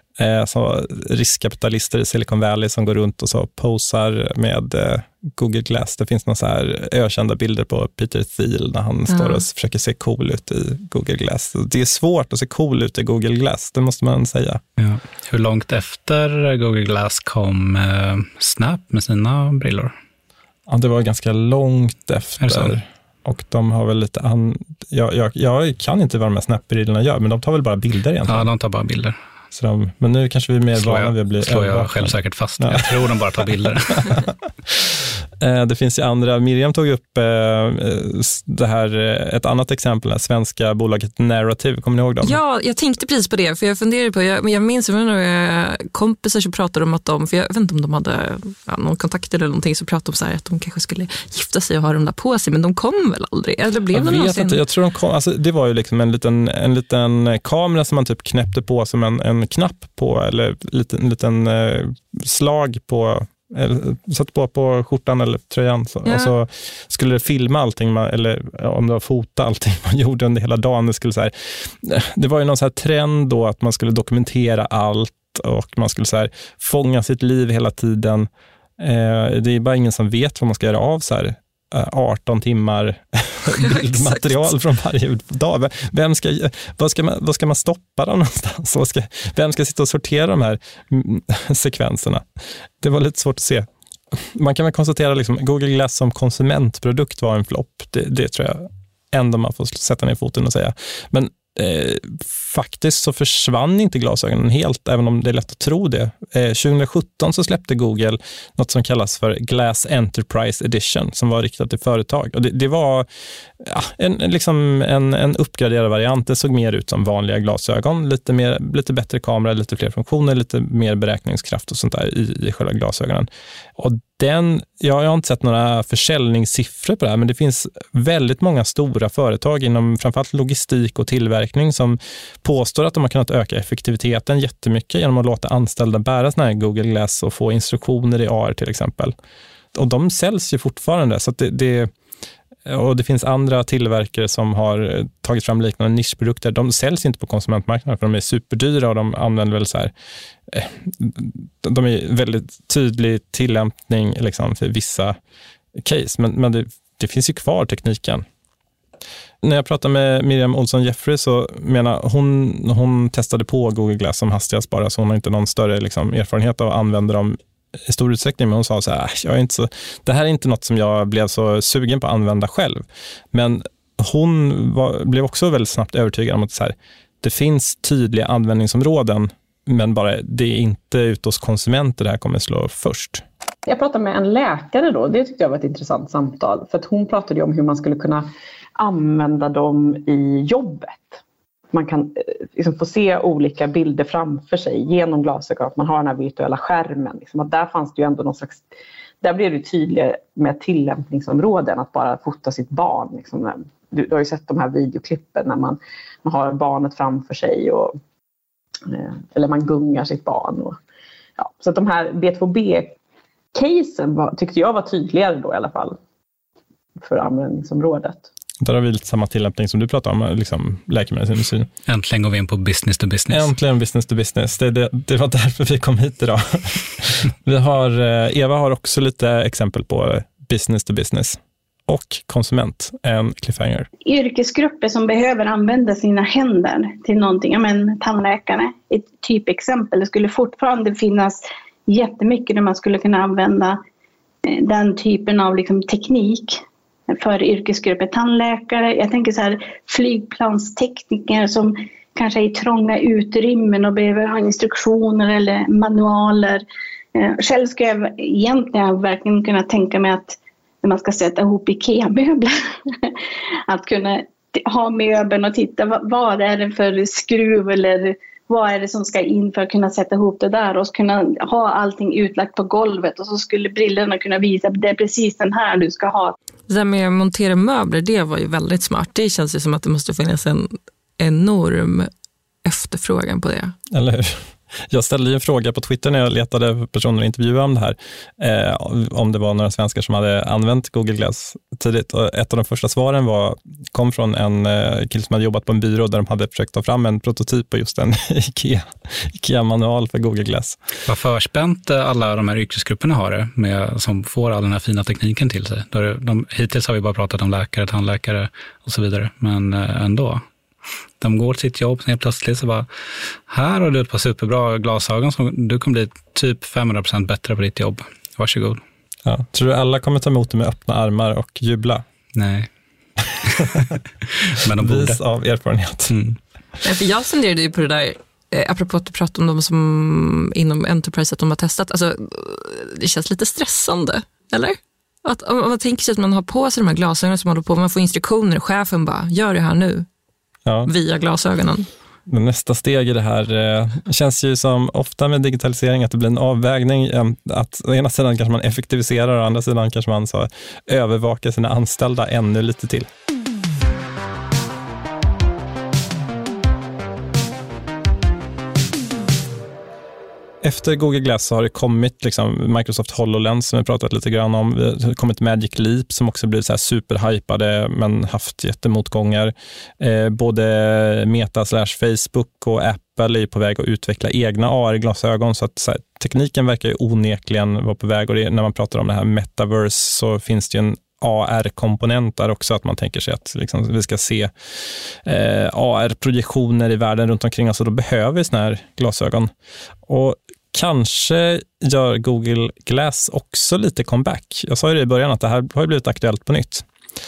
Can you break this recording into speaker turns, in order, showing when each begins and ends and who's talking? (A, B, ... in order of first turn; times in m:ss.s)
0:00.2-0:14.6 A
0:09.1-0:09.4 B
0:14.8-0:19.9 C
0:20.7-0:28.5 A
0:22.4-0:22.7 C
0:28.3-0:29.2 C
0:29.5-0:33.5 A
0:30.8-0:34.3 C
0:34.0-0:42.4 A
0:42.2-0:54.6 B
0:53.9-1:32.3 A
1:06.1-1:06.3 B
1:23.7-1:24.1 B
1:32.8-1:53.1 A
1:53.6-2:19.2 A
2:19.7-2:21.9 A
2:22.7-2:29.9 A
2:30.5-2:35.2 A
2:35.8-2:38.3 A
2:39.4-3:03.2 A
3:03.7-3:11.2 D
3:11.7-3:18.6 D
3:19.2-3:28.0 D
3:28.9-3:30.8 D
3:31.4-3:33.0 D
3:33.5-3:36.0 D
3:37.0-3:38.3 D
3:38.6-3:41.7 A
3:41.9-3:43.5 C
3:43.3-3:53.9 A
3:54.0-4:03.8 E
4:04.5-4:16.6 E
4:17.2-4:23.2 E
4:23.7-4:36.3 E
4:36.7-4:42.1 B
4:42.6-4:43.8 B
4:43.9-5:00.8 A
5:01.1-5:10.4 C
5:11.2-5:12.9 C
5:13.5-5:18.8 C
5:19.2-5:22.0 A
5:22.4-5:22.7 C
5:23.3-5:23.7 A
5:23.5-5:25.2 C
5:24.8-5:26.1 A
5:26.1-5:26.4 C
5:26.8-5:40.1 B
5:40.8-5:41.9 B
5:42.3-5:53.1 A
6:00.6-6:24.5 A
6:25.2-6:29.5 A
6:30.1-6:36.9 A